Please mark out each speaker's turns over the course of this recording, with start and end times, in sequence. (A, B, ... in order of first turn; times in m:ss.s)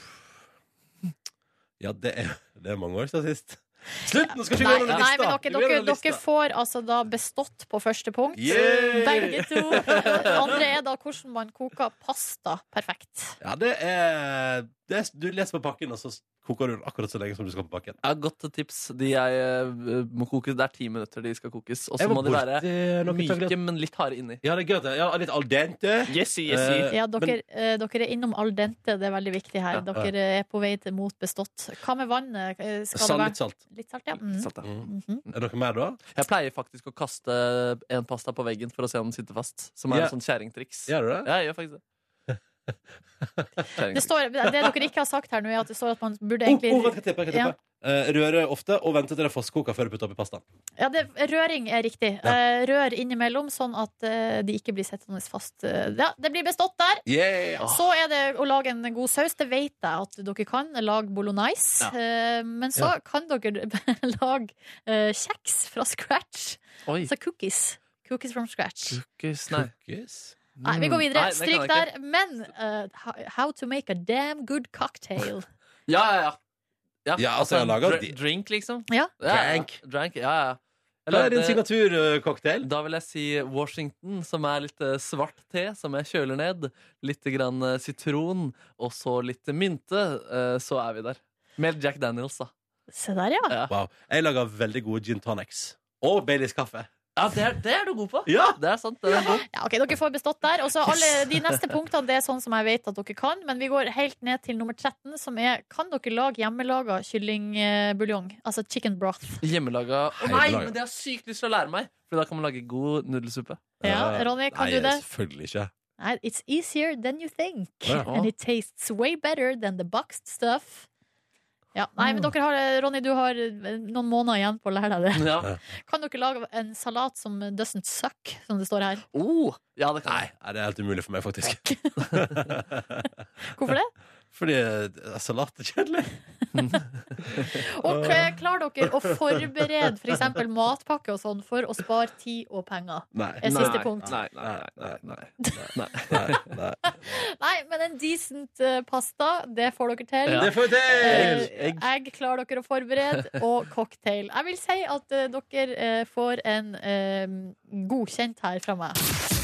0:01.8-0:06.2 A
0:04.6-0:13.4 B
0:08.4-0:10.6 A
0:13.4-0:18.0 A
0:18.0-0:24.4 C
0:22.0-0:23.6 A
0:24.4-0:27.4 A
0:26.1-0:26.9 C
0:26.9-0:35.2 B
0:33.0-0:33.6 A
0:34.2-0:34.8 C
0:34.6-0:36.0 A
0:36.1-0:41.8 C
0:39.9-0:40.2 A
0:40.9-0:41.3 A
0:43.8-0:44.1 C
0:43.9-0:47.6 B
0:46.5-0:50.4 A
0:50.8-0:57.0 B
0:57.1-0:57.6 A
0:57.6-1:09.0 B
1:08.9-1:09.7 C
1:09.5-1:10.4 A
1:10.6-1:11.9 C
1:10.6-1:15.5 B
1:15.9-1:16.4 C
1:17.1-1:21.6 C
1:17.2-1:18.2 A
1:19.2-1:19.8 A
1:21.1-1:22.7 A
1:22.6-1:32.5 C
1:32.9-1:33.5 B
1:33.7-1:36.9 A
1:37.2-1:39.4 C
1:38.3-1:38.6 A
1:39.1-1:49.4 B
1:41.0-1:41.6 C
1:49.4-1:53.6 C
1:50.2-1:50.8 A
1:53.8-1:55.7 A
1:53.8-1:55.0 B
1:56.0-2:00.9 B
1:58.0-1:58.3 C
2:01.8-2:09.0 B
2:02.0-2:02.3 C
2:05.1-2:05.5 C
2:09.1-2:10.2 C
2:10.0-2:13.1 A
2:13.4-2:13.9 B
2:14.3-2:16.1 A
2:16.6-2:17.5 C
2:17.3-2:18.3 A
2:17.6-2:24.2 B
2:18.9-2:19.6 A
2:23.1-2:27.2 A
2:23.4-2:25.2 C
2:25.4-2:25.7 B
2:25.7-2:26.5 C
2:26.9-2:39.0 B
2:30.3-2:31.8 C
2:30.4-2:31.5 A